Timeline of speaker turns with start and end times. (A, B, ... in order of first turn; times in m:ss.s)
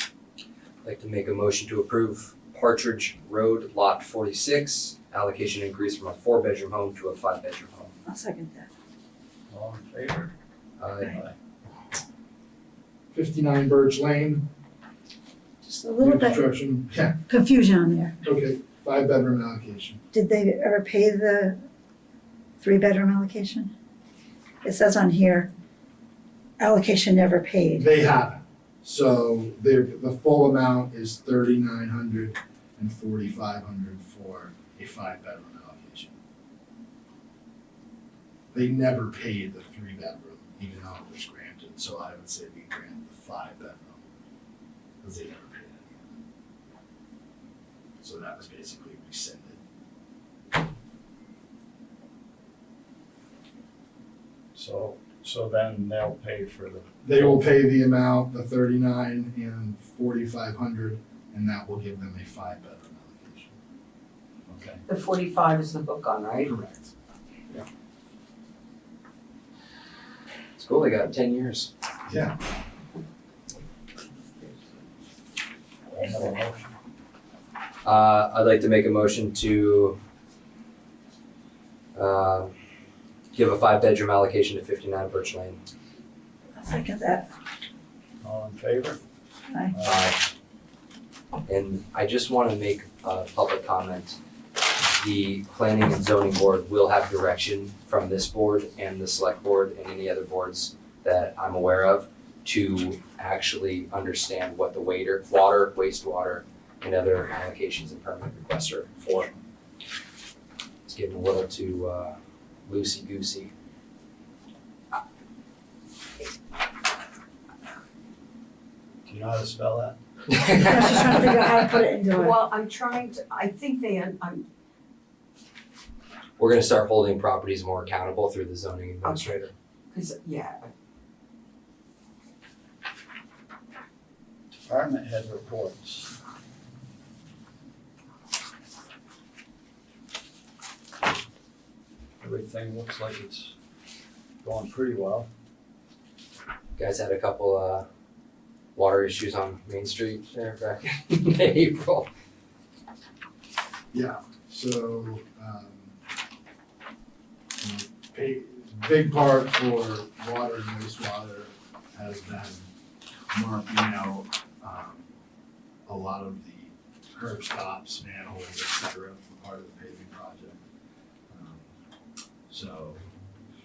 0:00.8-0:07.9 A
0:08.0-0:08.7 B
0:09.5-0:10.3 C
0:10.8-0:11.2 A
0:11.0-0:11.3 C
0:13.1-0:14.4 D
0:15.6-0:16.4 B
0:16.0-0:17.2 D
0:17.3-0:18.2 B
0:18.2-0:20.0 D
0:20.1-0:21.6 B
0:22.6-0:23.7 B
0:24.6-0:25.5 B
0:26.6-0:27.9 B
0:27.8-0:36.1 D
0:38.5-0:44.0 D
0:45.0-0:46.1 D
0:48.0-0:49.6 D
0:54.5-0:57.5 C
0:57.0-1:03.5 D
1:04.5-1:04.8 C
1:04.9-1:06.4 E
1:06.4-1:06.9 D
1:10.6-1:11.7 A
1:12.1-1:12.3 D
1:15.9-1:16.7 C
1:17.8-1:20.0 A
1:21.9-1:22.5 A
1:23.3-1:25.6 A
1:26.6-1:27.3 B
1:28.2-1:29.0 C
1:29.7-1:30.1 C
1:29.8-1:30.2 A
1:31.5-1:34.2 A
1:34.8-1:49.3 A
1:50.9-1:53.5 A
1:59.0-2:00.0 C
2:00.3-2:00.9 A
2:00.6-2:02.4 B
2:02.1-2:04.4 E
2:06.4-2:09.5 A
2:09.0-2:09.4 E
2:09.9-2:10.7 E
2:14.5-2:16.1 C
2:22.2-2:23.5 C
2:24.4-2:25.3 C
2:26.8-2:27.8 A
2:28.8-2:32.1 A
2:33.9-2:35.9 D
2:37.6-2:42.6 D
2:43.3-2:45.0 D
2:45.8-2:50.6 D
2:51.3-2:51.7 D
2:52.5-2:53.0 D